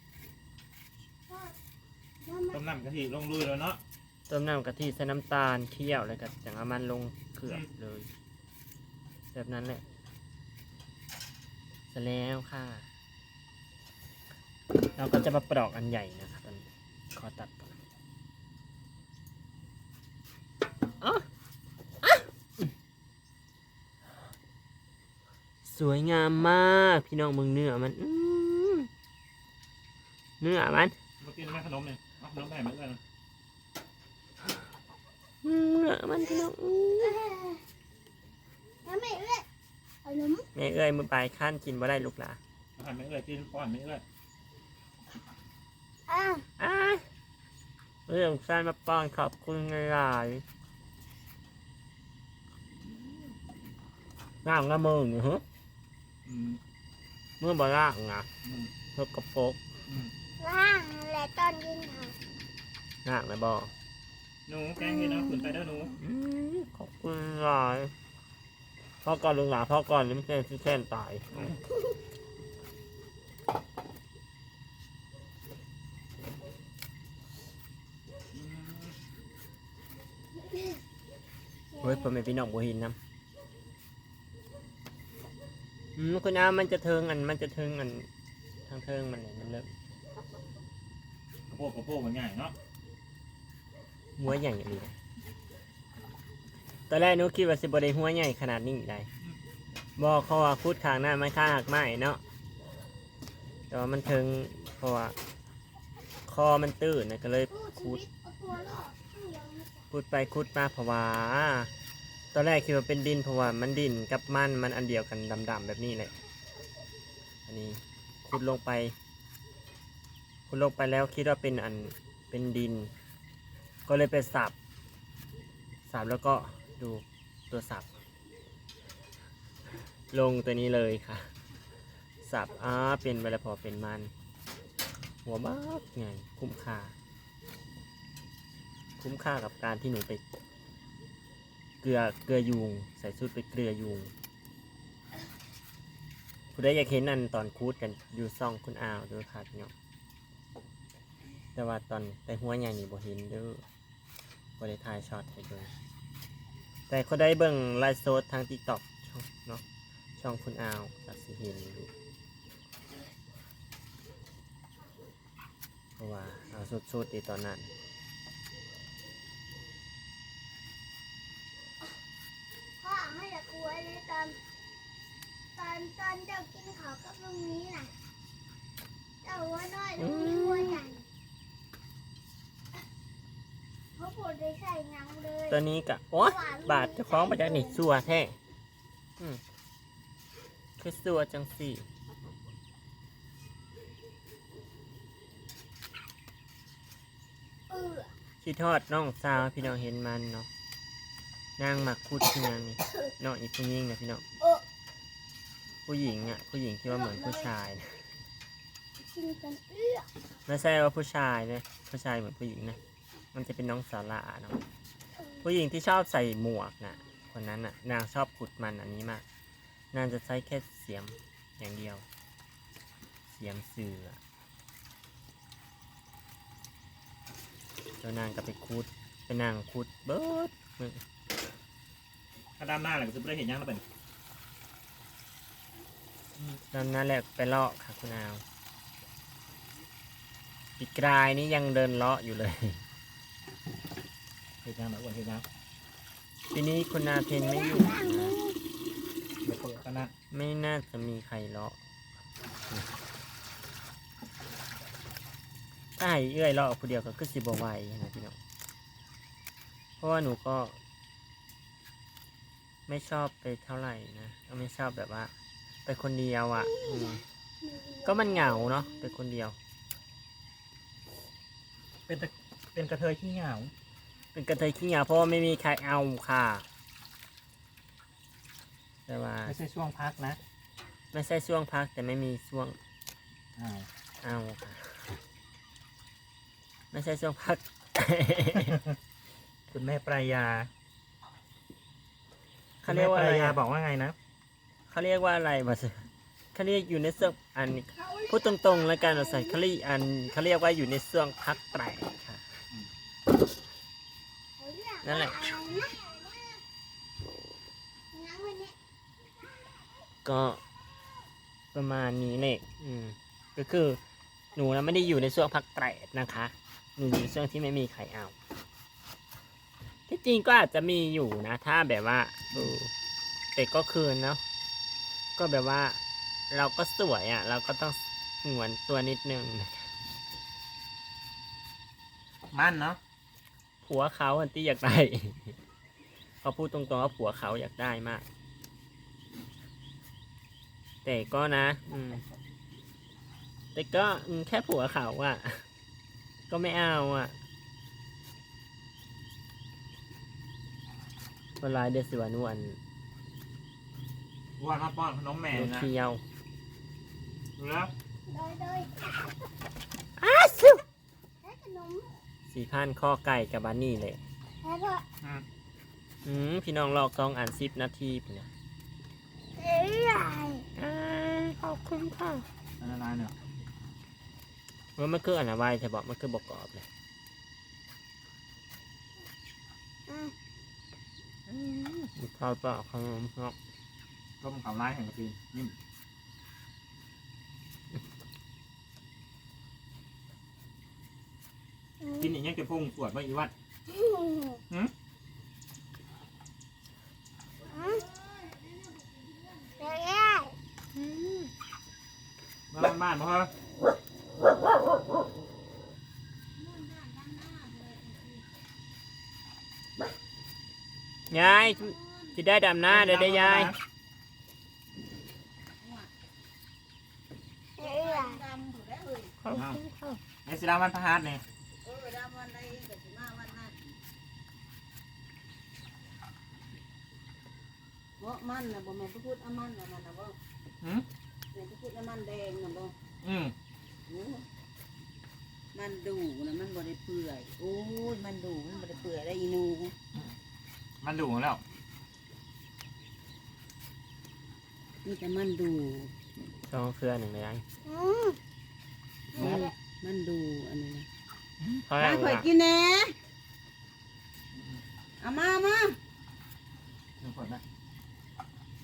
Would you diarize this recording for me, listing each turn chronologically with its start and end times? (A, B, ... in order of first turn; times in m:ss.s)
0:01.3-0:01.6 A
0:02.2-0:02.6 A
0:02.5-0:03.8 B
0:04.3-0:08.1 C
0:09.3-0:09.8 C
0:11.9-0:12.8 C
0:15.0-0:17.7 C
0:22.0-0:22.7 C
0:25.6-0:28.9 C
0:30.4-0:30.9 C
0:31.2-0:33.0 B
0:35.4-0:37.2 C
0:37.0-0:37.6 A
0:38.8-0:39.4 A
0:40.0-0:40.5 A
0:40.5-0:42.4 C
0:42.8-0:44.0 B
0:46.1-0:46.4 A
0:46.6-0:47.0 C
0:48.1-0:50.4 C
0:54.4-0:55.4 C
0:56.2-0:56.6 B
0:57.4-0:58.3 C
0:58.4-0:58.7 B
0:58.9-0:59.6 C
0:59.9-1:00.1 B
1:00.4-1:02.2 A
1:03.0-1:03.7 C
1:04.5-1:06.0 B
1:06.0-1:07.9 C
1:09.0-1:11.6 C
1:18.3-1:19.0 B
1:20.4-1:20.8 A
1:21.7-1:22.1 A
1:21.8-1:23.0 C
1:26.0-1:28.1 C
1:28.7-1:29.7 C
1:31.5-1:32.5 B
1:34.2-1:34.9 C
1:36.9-1:39.1 C
1:40.0-1:42.2 C
1:43.7-1:45.1 C
1:46.3-1:48.0 C
1:47.5-1:49.8 A
1:49.9-1:51.7 C
1:52.3-1:56.2 C
1:57.5-1:58.9 C
2:00.5-2:02.9 C
2:03.9-2:04.5 C
2:05.9-2:07.9 C
2:10.1-2:11.3 C
2:12.2-2:14.1 C
2:15.2-2:16.9 C
2:19.0-2:20.2 C
2:21.8-2:24.1 C
2:26.5-2:29.7 C
2:31.6-2:33.6 C
2:34.6-2:35.7 C
2:36.9-2:39.6 C
2:40.2-2:41.9 C
2:46.0-2:47.7 C
2:52.8-2:54.4 A
2:55.6-2:57.9 A
2:59.2-3:01.0 A
3:00.0-3:00.8 C
3:04.0-3:05.6 A
3:05.5-3:08.4 C
3:06.2-3:07.8 A
3:10.8-3:11.8 C
3:17.7-3:18.1 A
3:18.4-3:20.5 C
3:21.6-3:24.2 C
3:25.8-3:28.0 C
3:27.0-3:27.4 A
3:29.0-3:30.1 A
3:30.5-3:32.8 C
3:33.3-3:34.6 C
3:35.4-3:39.2 C
3:39.9-3:42.0 C
3:43.3-3:44.2 C
3:48.0-3:51.0 C
3:52.6-3:53.8 B
3:56.7-3:58.4 C
4:00.8-4:02.8 C
4:04.6-4:05.4 B
4:06.5-4:08.4 C
4:07.4-4:08.6 A
4:09.4-4:10.1 B
4:10.3-4:11.8 C
4:16.0-4:18.4 C
4:20.0-4:20.7 C
4:22.9-4:25.3 C
4:25.8-4:27.2 C
4:26.7-4:29.1 A
4:28.0-4:29.6 C
4:32.1-4:33.7 B
4:34.3-4:36.6 C
4:39.1-4:39.5 C
4:39.4-4:40.4 B
4:41.1-4:42.8 C
4:43.6-4:43.9 B
4:44.2-4:45.2 C
4:46.9-4:48.8 C
4:49.7-4:50.7 B
4:52.8-4:53.6 C
4:52.8-4:54.2 B
4:54.9-5:02.4 C
4:57.9-4:59.6 A
5:04.6-5:06.6 A
5:05.0-5:05.4 C
5:08.1-5:08.7 A
5:10.2-5:10.6 C
5:11.7-5:14.0 C
5:14.5-5:18.3 C
5:20.1-5:22.9 C
5:23.5-5:24.4 C
5:25.4-5:26.0 C
5:26.5-5:29.9 C
5:32.5-5:33.0 B
5:33.8-5:35.6 C
5:36.4-5:38.2 C
5:41.0-5:42.2 C
5:43.7-5:45.6 C
5:46.5-5:47.3 C
5:51.6-5:52.8 C
5:54.6-5:55.9 B
5:55.5-5:56.2 C
5:57.6-5:57.9 B
5:58.3-5:59.1 A
6:00.2-6:00.8 C
6:01.4-6:02.1 A
6:02.5-6:04.2 C
6:04.6-6:05.0 A
6:06.2-6:08.5 C
6:09.6-6:10.6 A
6:10.7-6:12.4 C
6:12.8-6:13.3 B
6:15.0-6:16.9 C
6:20.1-6:20.3 A
6:21.5-6:23.5 C
6:24.4-6:25.7 B
6:32.0-6:32.3 A
6:32.2-6:33.5 B
6:33.9-6:34.6 A
6:37.7-6:38.0 A
6:37.7-6:39.9 D
6:39.8-6:40.5 A
6:42.7-6:43.5 B
6:46.6-6:48.4 D
6:51.3-6:53.7 C
6:51.4-6:52.1 D
6:52.9-6:53.8 B
6:55.8-6:56.1 D
6:57.8-6:58.4 A
6:57.8-6:59.3 D
6:59.4-7:00.2 C
6:59.5-6:59.8 B
7:00.4-7:01.4 B
7:01.8-7:03.7 D
7:08.2-7:10.4 D
7:10.8-7:11.1 B
7:11.5-7:12.9 D
7:13.2-7:13.5 B
7:14.1-7:14.4 D
7:15.7-7:19.9 D
7:21.0-7:21.6 B
7:25.0-7:26.1 D
7:26.7-7:27.6 C
7:27.8-7:28.4 A
7:29.3-7:31.1 D
7:29.4-7:29.7 B
7:31.8-7:32.5 C
7:32.0-7:33.1 D
7:34.5-7:34.8 B
7:35.2-7:36.0 D
7:37.2-7:37.6 B